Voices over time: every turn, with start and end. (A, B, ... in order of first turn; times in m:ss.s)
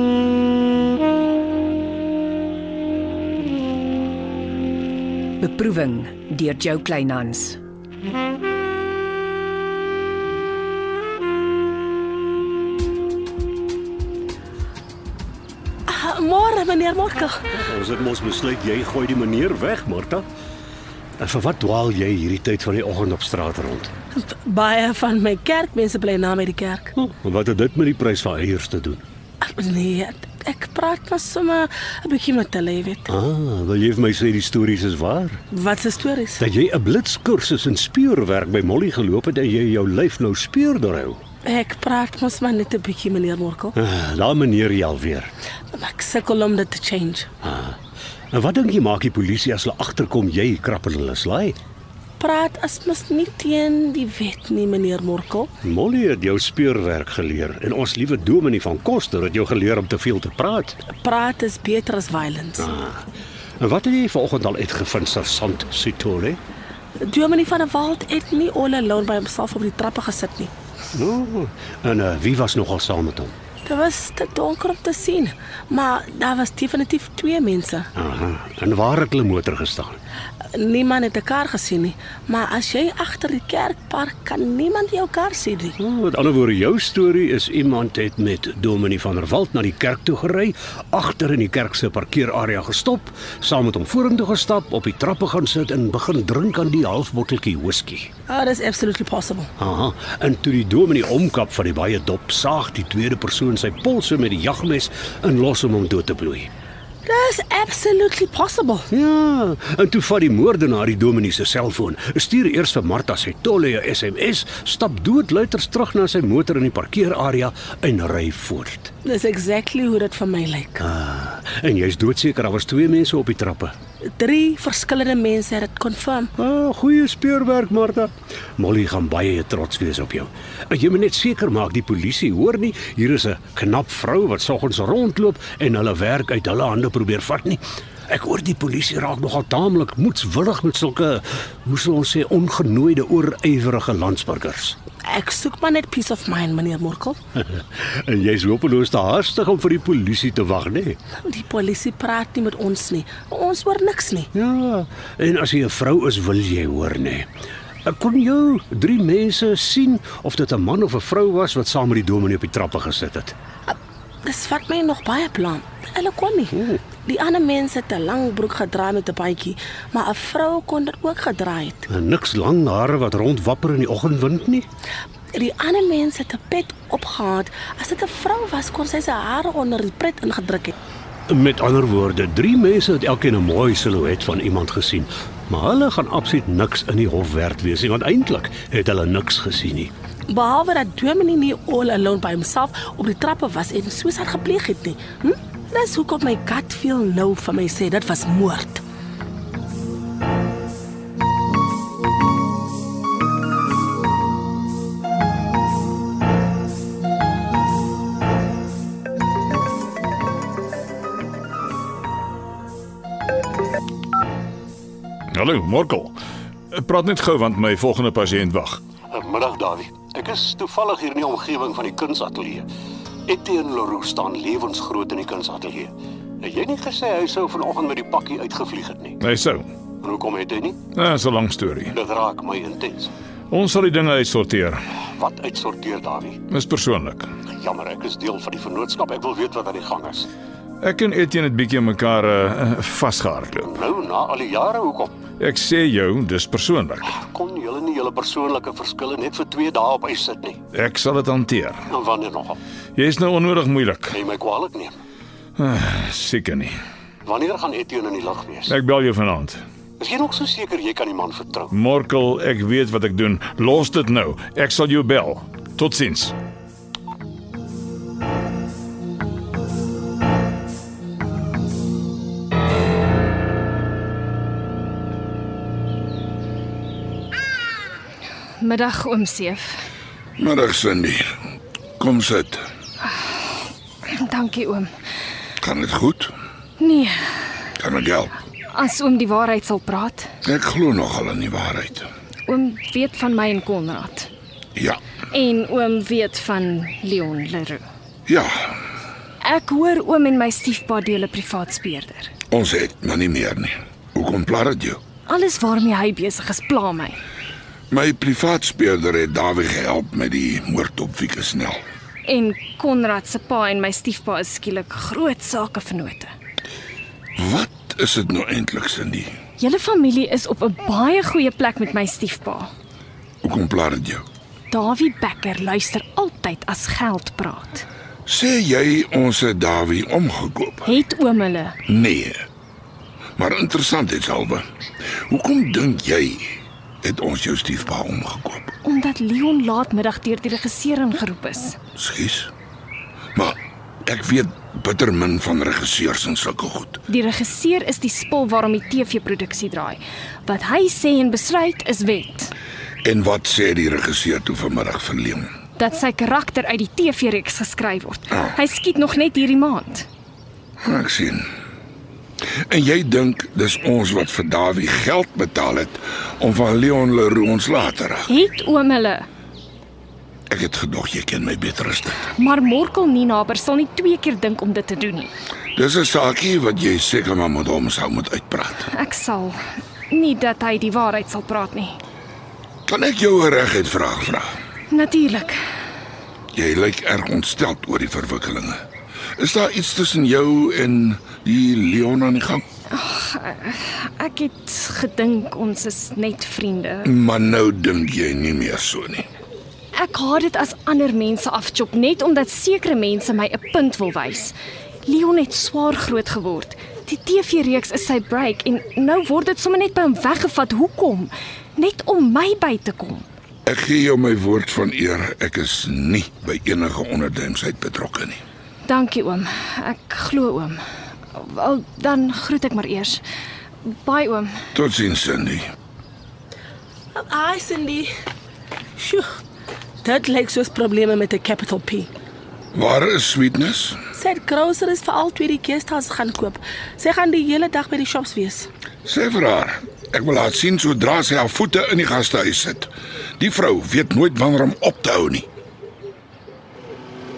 0:05.4-0:07.6 A
0:15.9-0:17.4 B
0:17.6-0:20.2 C
0:21.2-0:23.9 C
0:24.1-0:26.9 B
0:27.0-0:29.0 C
0:29.4-0:33.1 B
0:33.1-0:35.4 C
0:35.5-0:36.4 B
0:36.4-0:41.2 C
0:41.4-0:43.8 B
0:43.8-0:45.3 C
0:45.7-0:47.3 B
0:47.4-0:47.8 C
0:48.3-0:51.6 C
0:52.2-0:55.5 B
0:55.6-1:00.8 C
1:01.0-1:02.7 B
1:02.6-1:03.0 C
1:03.6-1:06.4 C
1:07.0-1:10.5 B
1:10.9-1:13.3 C
1:13.6-1:17.9 B
1:18.0-1:20.0 C
1:20.5-1:25.8 B
1:25.8-1:38.1 C
1:38.3-1:39.5 B
1:39.6-1:46.5 C
1:47.0-1:48.9 B
1:48.9-1:58.9 C
1:59.0-2:00.8 B
2:00.8-2:03.7 C
2:04.2-2:06.3 B
2:06.4-2:24.8 C
2:25.1-2:27.2 B
2:27.4-2:31.0 C
2:31.2-2:34.3 B
2:34.3-2:37.3 C
2:37.8-2:43.3 C
2:43.7-2:51.9 B
2:51.9-2:54.6 C
2:55.3-3:00.7 B
3:01.3-3:09.9 C
3:10.3-3:18.8 B
3:35.3-3:36.2 D
3:36.7-3:38.8 D
3:39.1-3:42.7 C
3:43.3-3:49.2 C
3:49.2-3:49.7 D
3:50.0-3:50.9 C
3:50.9-3:52.0 D
3:51.9-3:53.1 C
3:53.5-3:54.8 D
3:55.1-3:56.4 C
3:56.5-3:57.3 D
3:57.5-4:00.3 C
4:00.8-4:03.7 D
4:03.7-4:05.3 C
4:05.4-4:07.2 D
4:07.1-4:10.6 C
4:10.7-4:11.8 D
4:11.9-4:12.6 C
4:13.0-4:14.2 D
4:14.1-4:15.0 C
4:15.6-4:16.7 D
4:17.2-4:18.8 C
4:18.7-4:19.6 D
4:20.0-4:21.7 C
4:21.7-4:26.3 D
4:38.6-4:39.9 E
4:40.4-4:41.3 F
4:42.0-4:42.6 F
4:43.0-4:44.9 E
4:45.6-4:46.3 F
4:46.8-4:47.3 E
4:47.8-4:48.3 F
4:48.7-4:50.3 E
4:50.4-4:52.1 F
4:52.5-4:54.3 E
4:54.7-4:55.0 F
4:55.3-4:57.8 E
4:58.3-4:58.8 F
4:59.4-5:02.3 E
5:02.5-5:05.0 F
5:05.3-5:07.2 E
5:07.9-5:11.8 F
5:12.2-5:16.3 E
5:17.4-5:19.3 F
5:19.6-5:22.7 E
5:23.4-5:24.2 F
5:24.7-5:27.8 E
5:28.2-5:30.9 F
5:30.8-5:31.8 E
5:31.8-5:32.4 F
5:33.4-5:34.6 F
5:35.3-5:38.7 F
5:38.8-5:41.8 E
5:41.9-5:42.5 F
5:43.3-5:47.0 F
5:47.1-5:52.5 E
5:53.0-5:55.5 F
5:55.8-6:00.1 E
6:00.8-6:01.5 F
6:02.7-6:08.3 F
6:08.3-6:09.2 E
6:10.5-6:12.3 F
6:12.4-6:15.3 E
6:15.8-6:18.9 F
6:18.9-6:22.0 E
6:22.8-6:24.5 F
6:24.9-6:25.6 E
6:26.5-6:28.8 F
6:29.4-6:32.6 F
6:32.9-6:37.1 E
6:37.0-6:39.3 F
6:40.0-6:44.5 E
6:45.0-6:53.2 E
6:53.6-6:58.4 F
6:58.8-7:00.8 E
7:01.3-7:03.2 E
7:03.9-7:04.6 E
7:04.7-7:05.6 F
7:07.2-7:08.1 B
7:09.0-7:09.2 B
7:10.0-7:12.1 B
7:12.7-7:14.0 F
7:14.1-7:18.7 B
7:19.0-7:25.5 F